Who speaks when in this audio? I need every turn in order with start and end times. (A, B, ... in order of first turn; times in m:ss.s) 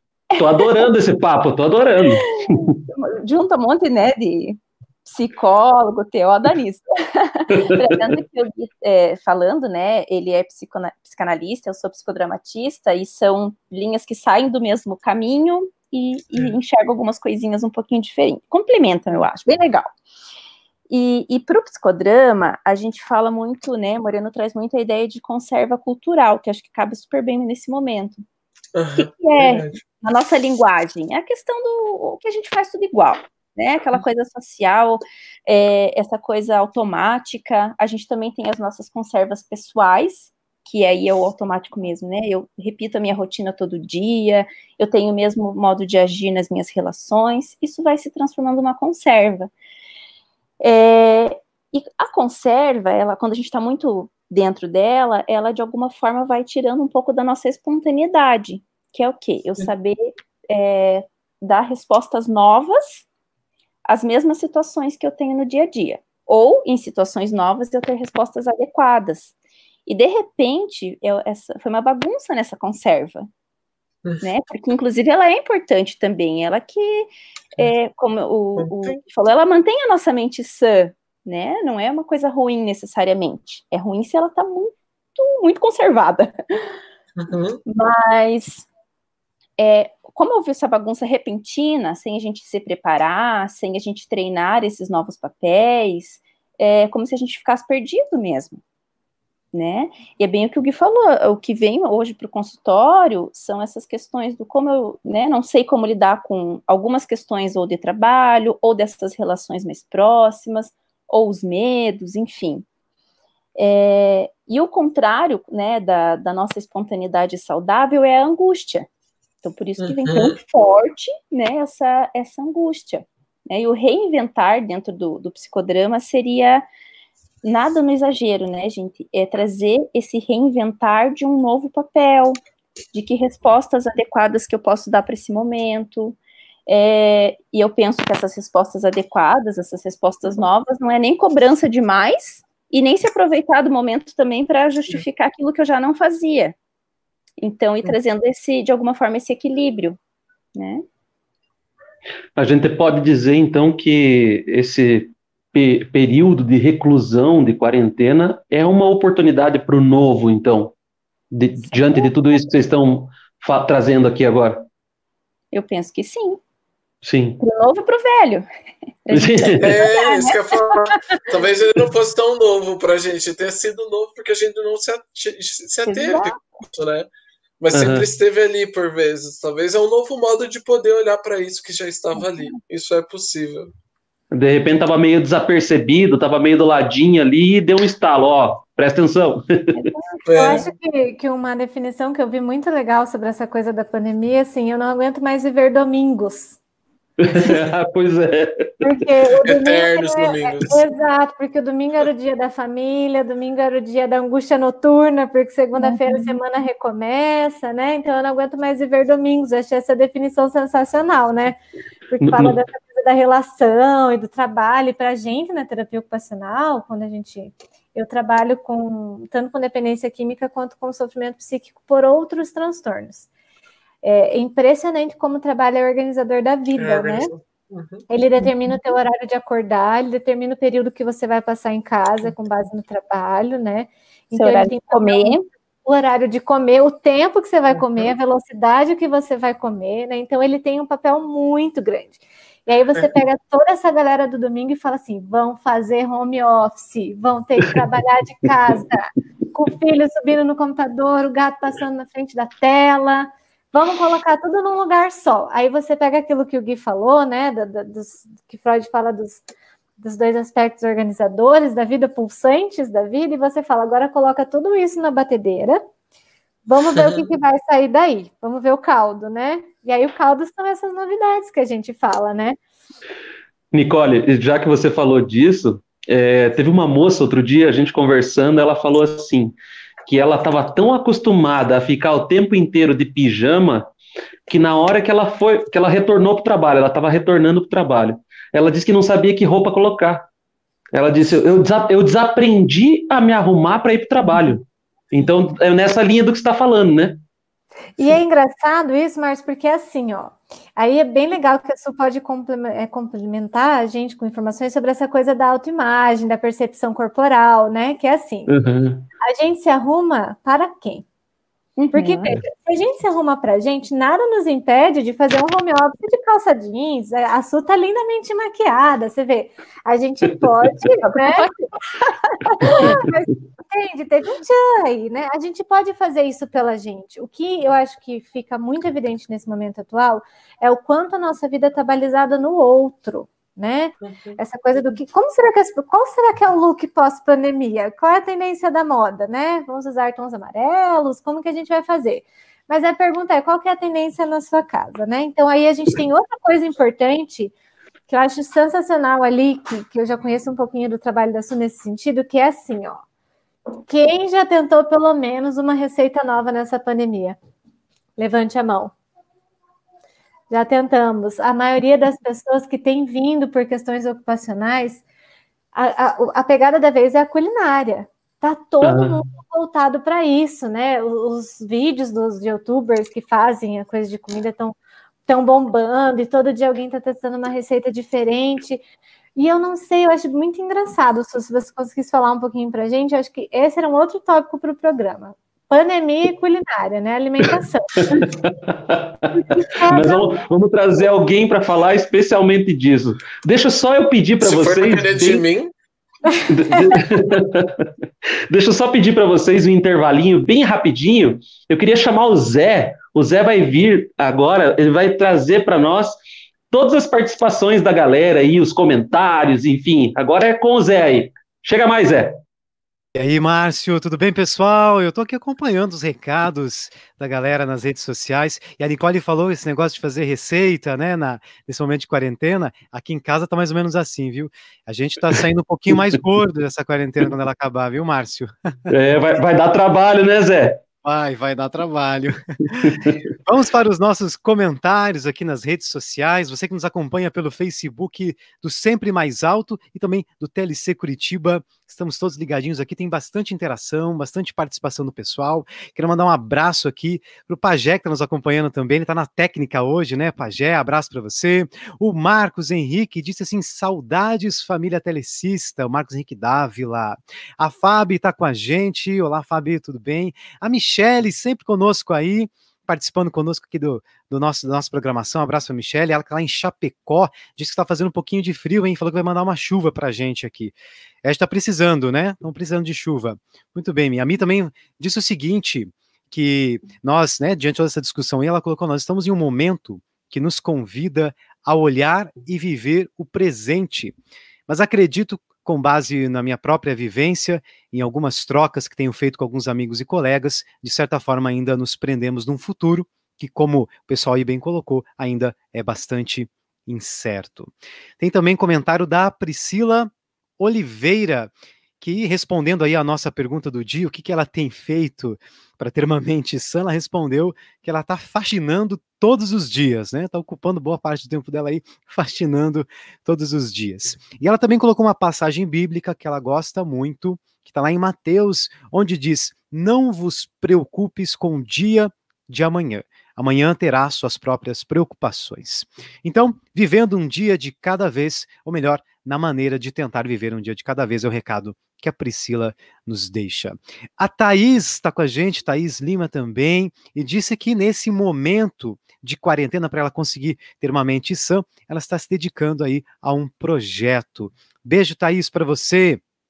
0:00.4-0:00.9 A
0:00.4-0:02.8 B
0:02.2-0:19.9 A
0:07.5-0:08.2 B
0:20.9-0:28.2 A
0:28.8-0:29.8 C
0:29.0-0:49.5 A
0:50.6-1:03.1 A
1:03.9-1:09.3 A
1:09.9-1:13.3 A
1:14.2-1:26.7 A
1:18.6-1:19.0 C
1:27.2-1:27.6 C
1:27.7-1:28.7 A
1:29.6-1:38.6 A
1:39.5-1:52.6 A
1:53.6-1:58.9 A
1:59.4-2:06.6 A
1:59.8-2:00.4 C
2:07.4-2:12.4 A
2:12.9-2:26.6 A
2:27.4-2:30.0 A
2:30.6-2:30.8 A
2:32.4-2:40.8 B
2:41.3-2:44.6 B
2:41.7-2:42.1 A
2:45.5-2:46.4 A
2:47.0-2:47.4 B
2:47.4-2:48.5 A
2:49.0-2:51.2 A
2:49.1-2:49.7 B
2:49.6-2:57.1 C
2:55.9-2:56.4 A
2:57.6-3:03.7 C
2:57.7-2:58.1 B
3:02.2-3:02.6 A
3:04.3-3:09.9 B
3:09.8-3:10.7 A
3:10.2-3:16.6 D
3:10.3-3:10.6 C
3:17.2-3:18.8 B
3:18.8-3:31.6 D
3:19.4-3:20.8 C
3:25.8-3:26.4 A
3:32.1-3:43.3 D
3:32.2-3:32.6 B
3:44.0-3:47.3 D
3:46.8-3:48.1 C
3:48.1-4:19.4 D
3:54.3-3:55.4 A
4:20.0-4:25.8 D
4:26.6-4:32.6 D
4:27.0-4:27.3 C
4:33.7-4:39.6 B
4:40.1-4:43.9 B
4:44.5-4:50.3 B
4:50.9-4:57.2 B
4:58.0-5:08.5 D
5:08.5-5:09.1 B
5:09.2-5:11.1 D
5:11.8-5:12.3 A
5:11.9-5:21.5 D
5:21.0-5:23.0 A
5:22.6-5:47.5 D
5:34.0-5:34.4 C
5:48.1-5:53.0 D
5:53.9-5:57.4 D
5:58.2-5:58.9 D
6:00.5-6:05.0 D
6:05.7-6:18.8 D
6:08.8-6:09.2 B
6:19.4-6:28.3 D
6:28.1-6:29.3 B
6:29.3-6:30.4 D
6:29.9-6:35.4 B
6:34.4-6:35.7 C
6:36.4-6:36.9 D
6:36.5-6:37.9 B
6:38.5-6:46.2 B
6:46.7-6:52.4 B
6:53.1-7:08.9 E
7:08.9-7:10.8 B
7:11.0-8:04.2 E
7:12.8-7:13.2 B
8:04.7-9:06.2 E